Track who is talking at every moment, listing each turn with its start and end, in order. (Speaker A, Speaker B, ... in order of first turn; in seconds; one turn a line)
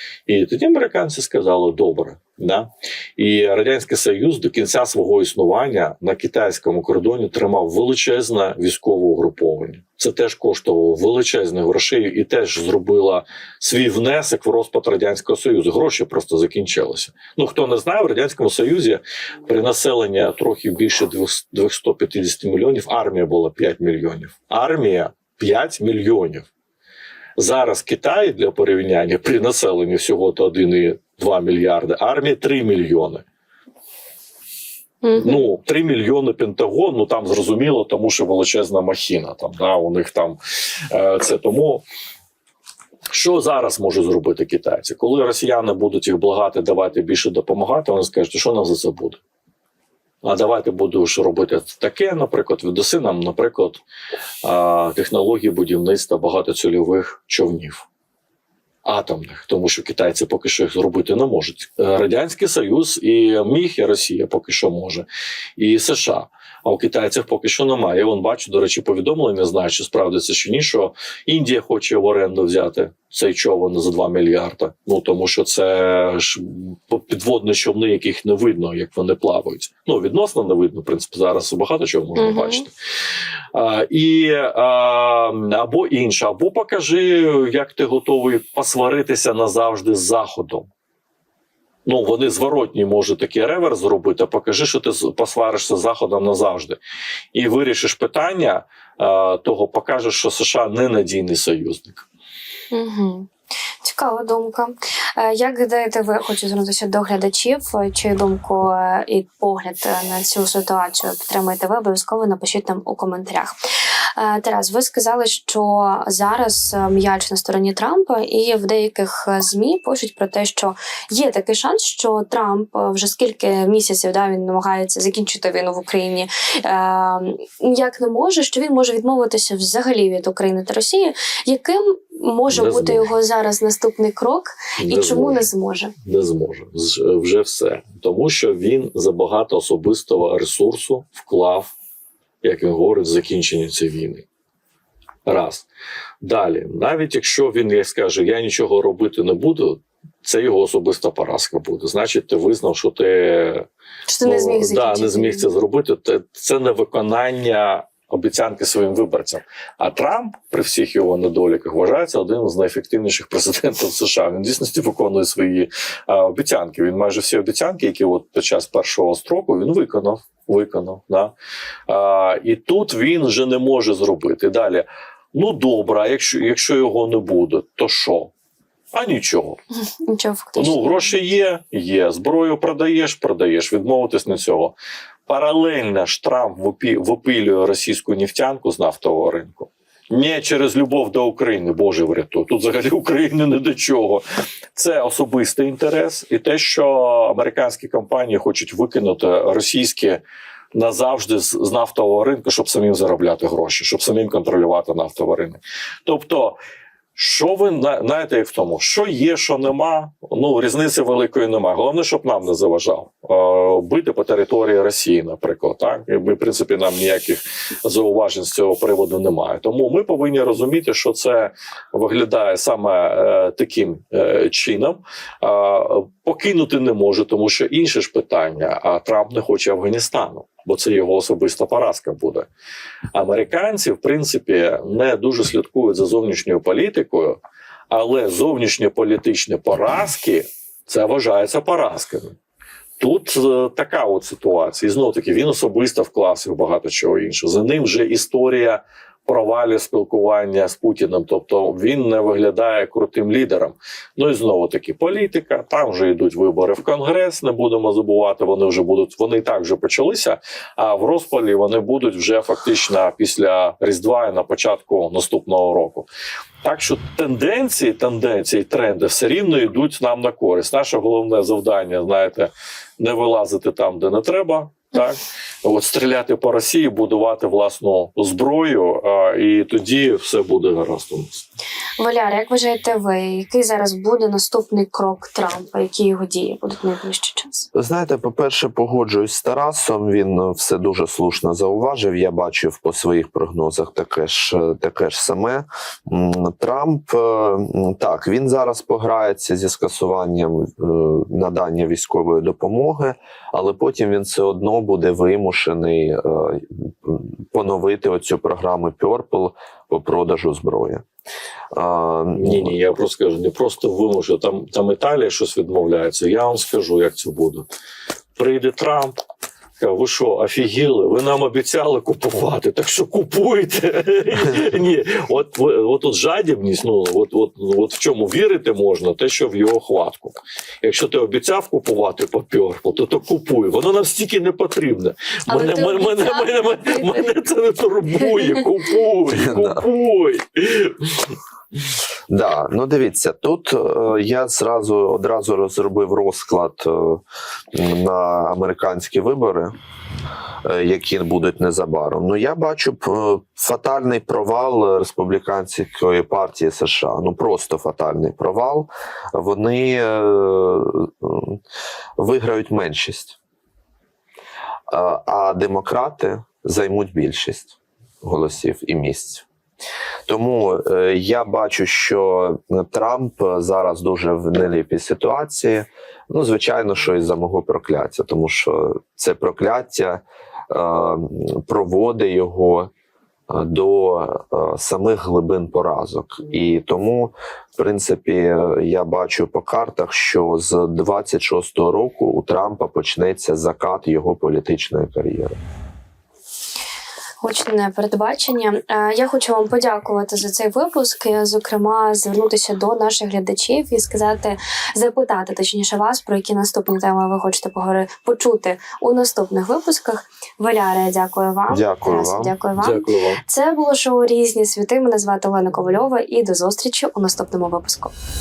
Speaker A: 0.3-26.5
Speaker A: 27.4-33.2
Speaker B: 35.0-35.4
Speaker A: 35.1-40.4
Speaker A: 40.9-41.8
Speaker A: 43.1-49.2
Speaker A: 50.2-53.8
Speaker A: 54.4-57.9
Speaker A: 58.9-65.1
Speaker A: 65.6-82.7
Speaker B: 82.2-82.7
Speaker A: 83.5-90.7
Speaker A: 91.9-96.8
Speaker A: 97.3-102.0
Speaker B: 102.7-103.3
Speaker B: 103.8-113.5
Speaker B: 114.2-135.9
Speaker A: 132.5-133.1
Speaker A: 134.8-135.5
Speaker A: 136.0-141.7
Speaker A: 142.4-144.2
Speaker A: 145.3-145.7
Speaker A: 146.2-153.7
Speaker B: 154.1-155.5
Speaker A: 154.2-171.3
Speaker A: 171.9-178.3
Speaker A: 178.9-179.6
Speaker B: 180.0-181.1
Speaker A: 180.6-184.7
Speaker A: 185.3-194.2
Speaker A: 194.8-200.2
Speaker A: 200.7-206.6
Speaker A: 207.2-232.5
Speaker A: 233.1-242.4
Speaker A: 243.0-266.1
Speaker A: 266.6-281.4
Speaker B: 282.0-287.7
Speaker C: 287.7-311.1
Speaker C: 311.7-312.7
Speaker A: 312.3-317.7
Speaker A: 318.4-319.2
Speaker A: 319.8-341.4
Speaker B: 335.5-337.3
Speaker B: 338.3-338.7
Speaker C: 339.3-339.8
Speaker C: 342.3-347.2
Speaker C: 347.7-349.7
Speaker C: 350.6-361.6
Speaker C: 362.2-363.4
Speaker C: 364.9-369.5
Speaker C: 370.3-382.9
Speaker C: 383.5-395.6
Speaker B: 397.4-418.1
Speaker C: 411.7-412.5
Speaker A: 412.8-413.4